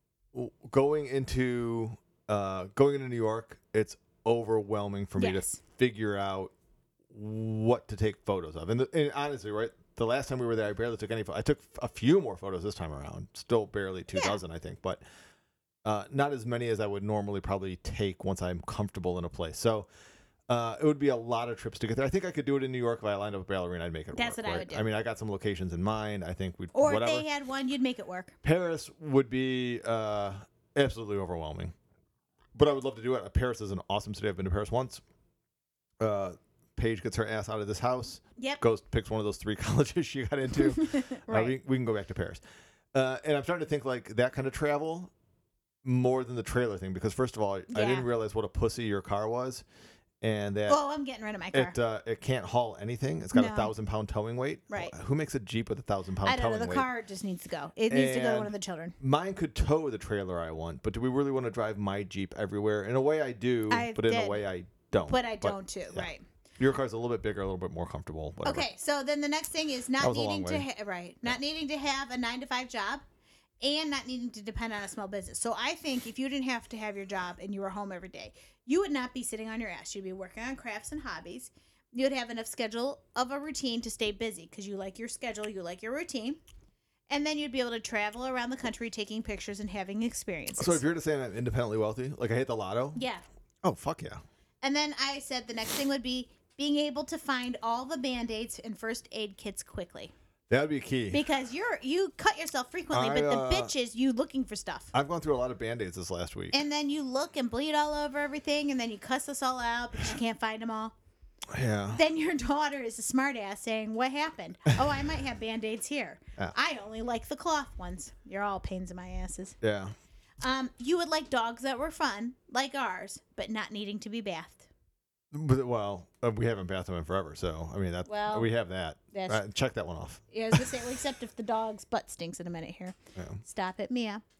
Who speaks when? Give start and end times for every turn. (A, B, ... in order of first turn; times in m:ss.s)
0:00.3-0:06.5 A
0:05.2-0:05.6 B
0:07.1-0:15.0 A
0:14.1-0:14.4 B
0:15.8-0:19.9 A
0:20.5-0:27.2 A
0:24.1-0:24.8 B
0:26.7-0:28.4 B
0:28.4-0:31.7 A
0:32.5-0:35.0 A
0:36.0-0:42.4 A
0:40.8-0:41.5 B
0:42.9-0:45.1 A
0:45.8-0:49.6 A
0:47.7-0:48.1 B
0:50.2-0:50.8 A
0:50.7-0:51.8 B
0:51.5-0:56.9 A
0:53.3-0:53.7 B
0:56.2-0:58.9 B
0:57.9-1:08.7 A
1:03.7-1:04.4 B
1:05.1-1:06.2 B
1:08.4-1:13.0 B
1:10.0-1:10.6 A
1:13.6-1:26.4 B
1:27.1-1:30.8 B
1:30.6-1:33.0 A
1:33.0-1:33.2 B
1:33.6-1:34.2 A
1:34.6-1:40.1 B
1:40.5-1:41.2 A
1:41.1-1:44.9 B
1:42.9-1:43.7 A
1:44.9-1:46.6 A
1:46.5-1:50.9 B
1:51.5-1:52.0 A
1:51.9-1:59.6 B
1:59.6-2:00.0 A
2:00.4-2:04.7 B
2:05.3-2:10.7 A
2:08.0-2:08.5 B
2:09.1-2:09.4 B
2:10.3-2:14.2 B
2:13.2-2:13.4 A